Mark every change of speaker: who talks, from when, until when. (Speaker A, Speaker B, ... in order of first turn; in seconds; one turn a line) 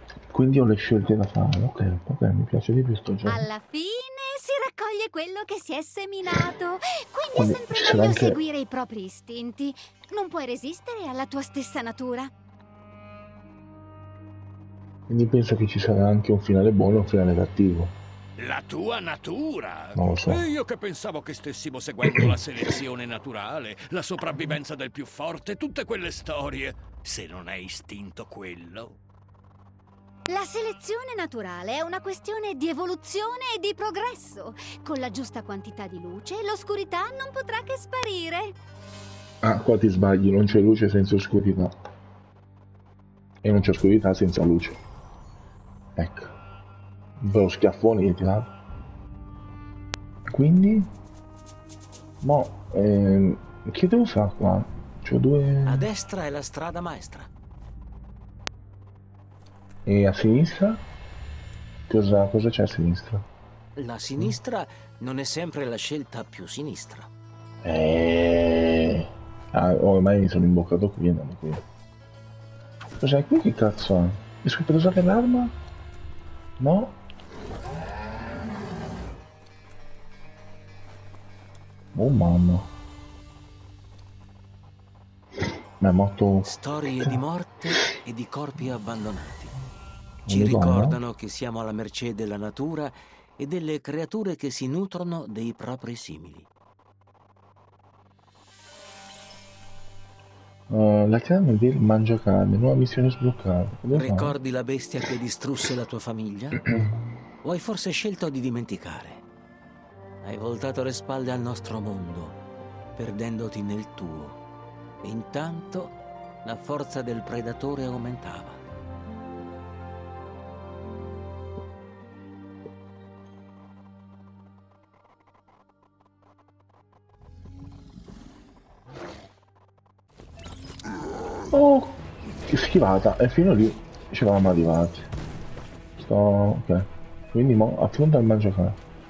Speaker A: 0.3-3.5
Speaker B: 3.2-12.3
Speaker A: 7.3-8.4
Speaker A: 15.1-17.9
Speaker C: 18.4-29.0
Speaker A: 19.9-20.5
Speaker B: 30.3-38.5
Speaker A: 39.4-41.7
Speaker A: 43.4-44.8
Speaker A: 46.0-46.3
Speaker A: 47.2-48.5
Speaker A: 50.3-50.9
Speaker A: 52.2-55.9
Speaker D: 55.6-57.3
Speaker A: 59.9-60.8
Speaker A: 61.9-63.2
Speaker D: 63.8-67.1
Speaker A: 67.6-71.6
Speaker A: 73.0-75.5
Speaker A: 76.6-77.0
Speaker A: 81.9-82.7
Speaker A: 85.8-87.2
Speaker D: 86.4-89.5
Speaker A: 90.2-91.0
Speaker D: 90.3-96.5
Speaker A: 100.7-104.3
Speaker D: 103.9-106.7
Speaker D: 107.4-109.2
Speaker D: 110.2-112.4
Speaker D: 113.0-114.4
Speaker D: 115.0-118.6
Speaker A: 131.5-135.1
Speaker A: 136.0-138.8